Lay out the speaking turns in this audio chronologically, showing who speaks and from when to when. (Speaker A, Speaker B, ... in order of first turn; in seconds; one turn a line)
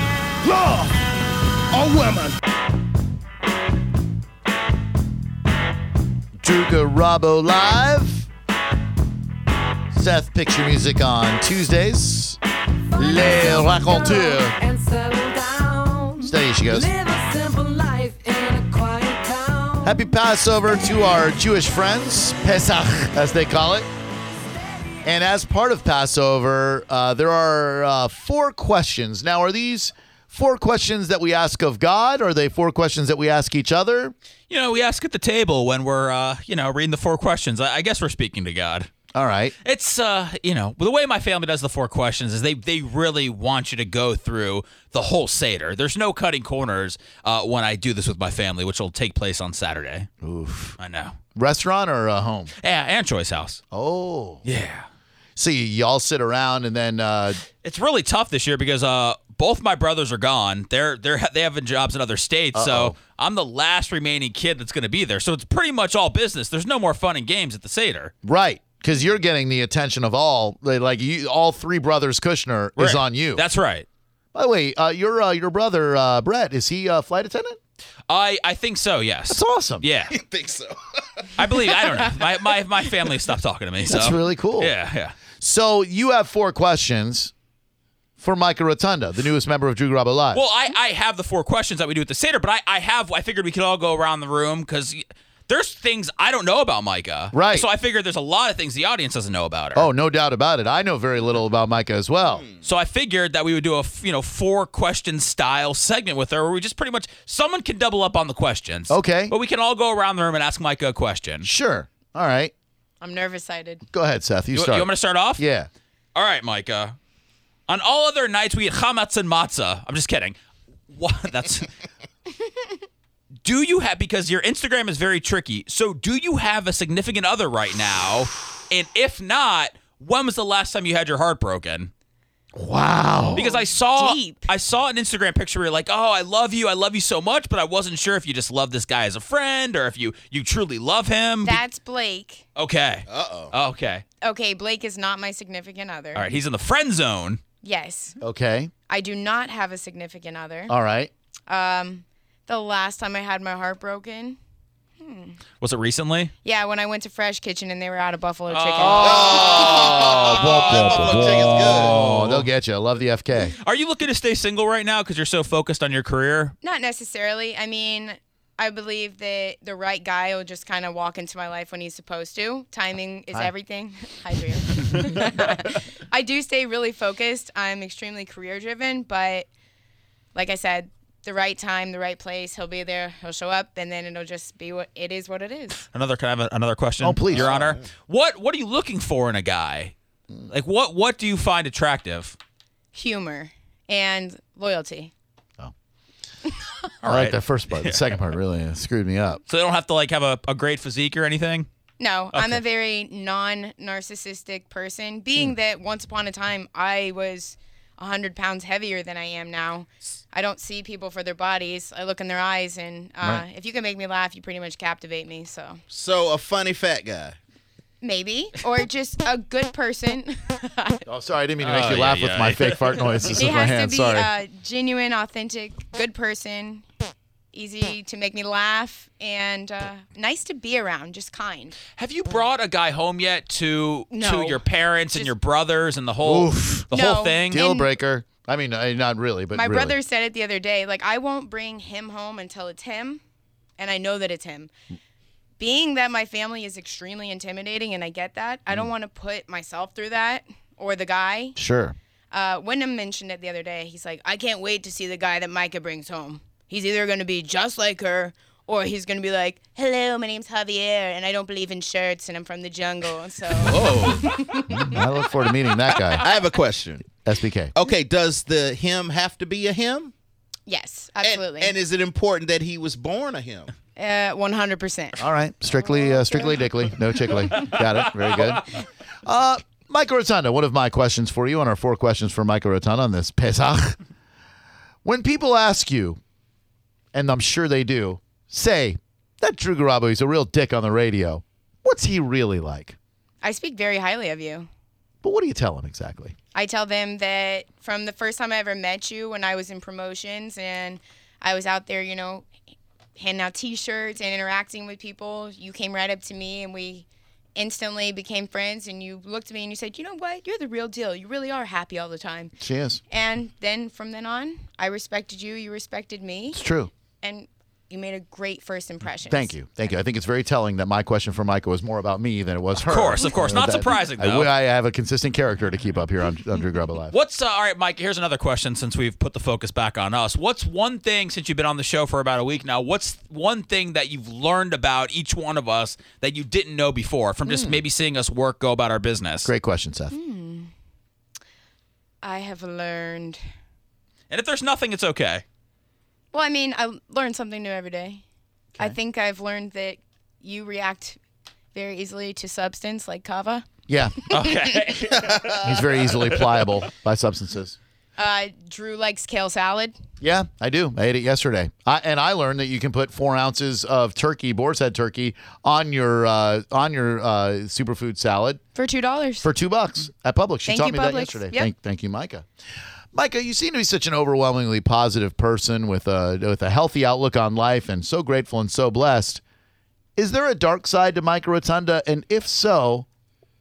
Speaker A: 0.5-0.9
Speaker A: 1.7-2.3
Speaker B: 6.4-8.3
Speaker B: 9.9-12.4
Speaker B: 12.9-14.6
Speaker A: 14.6-19.9
Speaker B: 16.2-16.9
Speaker B: 19.8-23.9
Speaker B: 25.0-34.1
Speaker C: 34.5-38.9
Speaker B: 39.1-39.5
Speaker C: 39.6-50.1
Speaker B: 50.2-50.8
Speaker C: 50.8-51.1
Speaker B: 51.3-52.5
Speaker C: 52.6-53.6
Speaker B: 53.7-54.4
Speaker C: 54.4-54.9
Speaker B: 55.4-57.4
Speaker C: 57.6-68.1
Speaker B: 62.5-63.0
Speaker B: 68.2-73.4
Speaker C: 72.8-73.9
Speaker B: 74.3-77.6
Speaker C: 78.1-80.1
Speaker B: 79.3-79.9
Speaker D: 80.1-81.8
Speaker C: 81.4-85.1
Speaker B: 83.9-84.8
Speaker B: 85.4-87.3
Speaker B: 88.2-90.4
Speaker C: 90.3-99.9
Speaker B: 97.3-97.7
Speaker B: 99.7-102.4
Speaker D: 102.3-102.6
Speaker C: 102.6-111.5
Speaker B: 108.9-109.3
Speaker B: 111.4-112.5
Speaker E: 113.0-113.8
Speaker B: 113.9-115.7
Speaker C: 114.5-115.4
Speaker C: 116.2-117.0
Speaker C: 117.7-120.4
Speaker C: 120.9-121.7
Speaker C: 123.4-131.9
Speaker B: 132.6-133.5
Speaker E: 133.3-134.5
Speaker C: 133.3-141.6
Speaker E: 141.4-142.4
Speaker C: 142.6-144.0
Speaker D: 143.1-143.5
Speaker E: 144.2-146.3
Speaker C: 146.1-147.4
Speaker E: 147.6-148.2
Speaker B: 148.2-148.7
Speaker E: 148.9-150.7
Speaker B: 150.7-151.1
Speaker E: 151.5-154.4
Speaker E: 155.0-155.4
Speaker C: 155.6-156.3
Speaker E: 156.4-160.0
Speaker C: 158.5-162.5
Speaker B: 158.8-163.6
Speaker D: 159.0-162.0
Speaker C: 163.4-166.5
Speaker E: 166.6-179.5
Speaker E: 180.3-185.8
Speaker C: 185.9-189.9
Speaker B: 187.0-187.5
Speaker D: 187.3-187.9
Speaker C: 190.5-192.4
Speaker E: 192.9-195.1
Speaker C: 197.0-198.1
Speaker B: 197.0-199.4
Speaker C: 199.5-201.7
Speaker E: 202.0-215.8
Speaker C: 202.3-202.6
Speaker D: 215.9-217.3
Speaker E: 218.0-221.0
Speaker B: 221.1-224.3
Speaker C: 221.6-223.2
Speaker E: 223.3-226.8
Speaker E: 227.5-231.8
Speaker C: 232.0-237.6
Speaker E: 234.1-235.3
Speaker B: 236.2-236.9
Speaker E: 236.9-237.9
Speaker B: 237.5-240.0
Speaker E: 239.5-243.2
Speaker E: 243.8-244.7
Speaker E: 245.6-251.6
Speaker B: 251.6-252.0
Speaker E: 252.3-265.0
Speaker D: 263.6-264.3
Speaker B: 264.7-266.3
Speaker C: 265.9-266.2
Speaker D: 266.2-267.2
Speaker B: 267.2-267.7
Speaker D: 267.8-270.1
Speaker E: 270.7-271.7
Speaker D: 271.2-273.7
Speaker E: 274.0-276.7
Speaker B: 275.2-278.7
Speaker E: 277.2-277.7
Speaker B: 279.3-284.0
Speaker B: 285.0-286.2
Speaker B: 287.1-293.0
Speaker E: 293.4-294.7
Speaker B: 295.2-296.4
Speaker E: 296.5-302.5
Speaker E: 303.2-312.6
Speaker B: 312.6-313.0
Speaker E: 313.1-316.6
Speaker B: 316.5-316.9
Speaker E: 317.2-319.5
Speaker B: 319.3-327.2
Speaker C: 322.8-324.5
Speaker C: 327.1-339.5
Speaker B: 337.4-337.8
Speaker B: 339.4-340.1
Speaker E: 340.1-340.7
Speaker E: 342.2-343.4
Speaker C: 344.3-345.4
Speaker E: 346.3-348.2
Speaker E: 348.8-351.2
Speaker E: 351.7-353.7
Speaker B: 353.9-354.2
Speaker E: 354.2-354.9
Speaker C: 354.3-356.7
Speaker D: 355.2-355.6
Speaker B: 355.6-357.8
Speaker E: 358.2-359.9
Speaker B: 360.2-368.6
Speaker E: 368.8-369.5
Speaker B: 369.4-372.4
Speaker E: 370.6-371.7
Speaker B: 373.1-379.4
Speaker B: 380.2-383.1